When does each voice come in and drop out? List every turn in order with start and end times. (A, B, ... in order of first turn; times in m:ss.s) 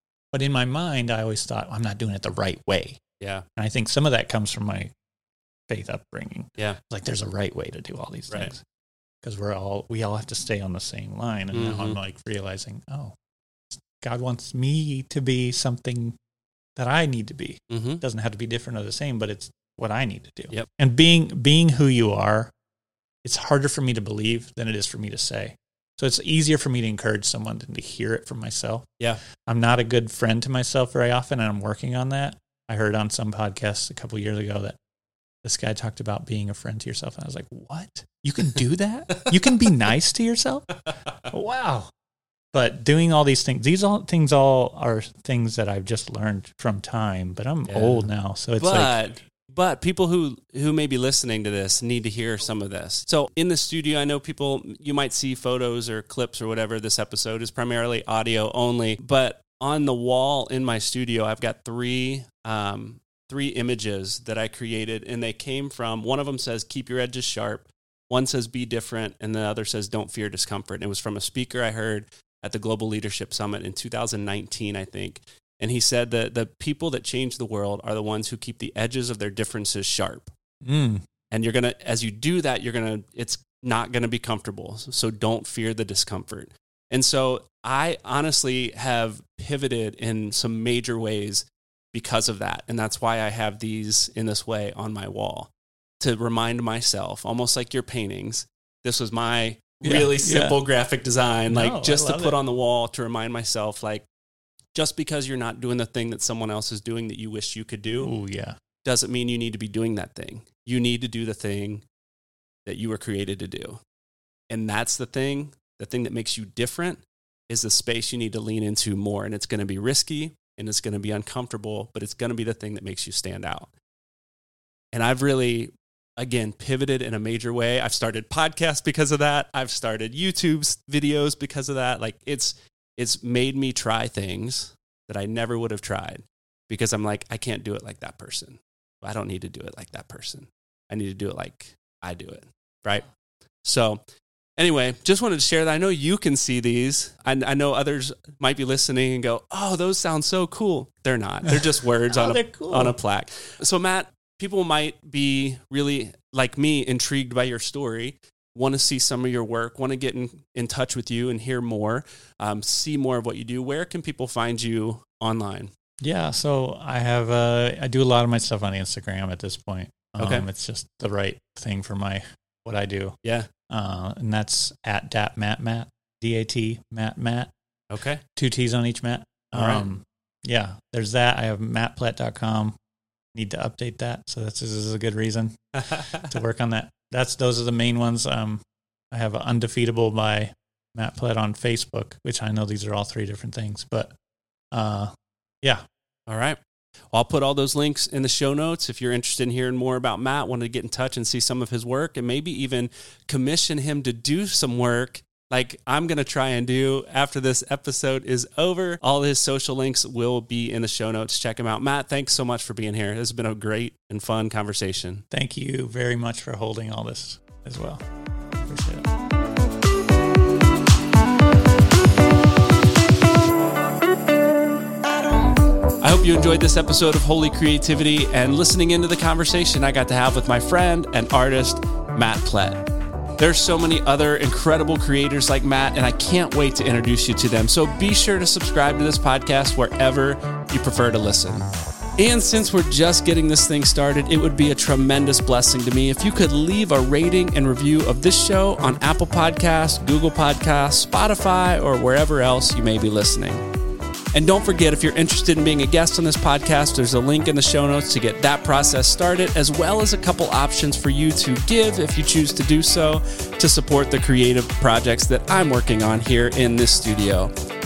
0:00.3-0:03.0 A
0:03.2-0:03.4 B
0:03.6-0:04.9 A
0:05.7-0:08.6 A
0:09.2-0:13.1 A
0:11.5-0:12.0 B
0:13.7-0:16.2 A
0:16.8-0:22.5 A
0:17.7-0:18.0 B
0:23.2-0:34.8 A
0:35.4-0:41.9 A
0:42.5-0:49.1 A
0:47.7-1:20.3 B
1:20.6-1:21.0 A
1:21.3-1:44.0 B
1:39.8-1:40.6 A
1:41.5-1:42.4 A
1:44.7-1:48.1 B
1:48.0-1:48.6 A
1:48.8-1:51.8 B
1:52.6-1:53.8 B
1:54.5-2:03.7 B
2:04.9-2:23.0 B
2:23.6-2:24.0 B
2:24.6-2:45.7 B
2:31.5-2:32.9 A
2:46.0-2:53.2 A
2:50.2-2:50.4 B
2:53.2-2:53.5 B
2:53.7-2:57.5 A
2:57.9-2:58.2 B
2:58.3-3:02.8 A
2:59.5-2:59.8 B
3:03.3-3:14.1 A
3:14.7-3:15.8 A
3:16.3-3:16.6 B
3:17.1-3:35.2 B
3:35.3-3:38.0 A
3:38.6-3:39.1 A
3:46.0-3:52.8 B
3:53.4-4:13.6 B
4:14.3-4:27.5 B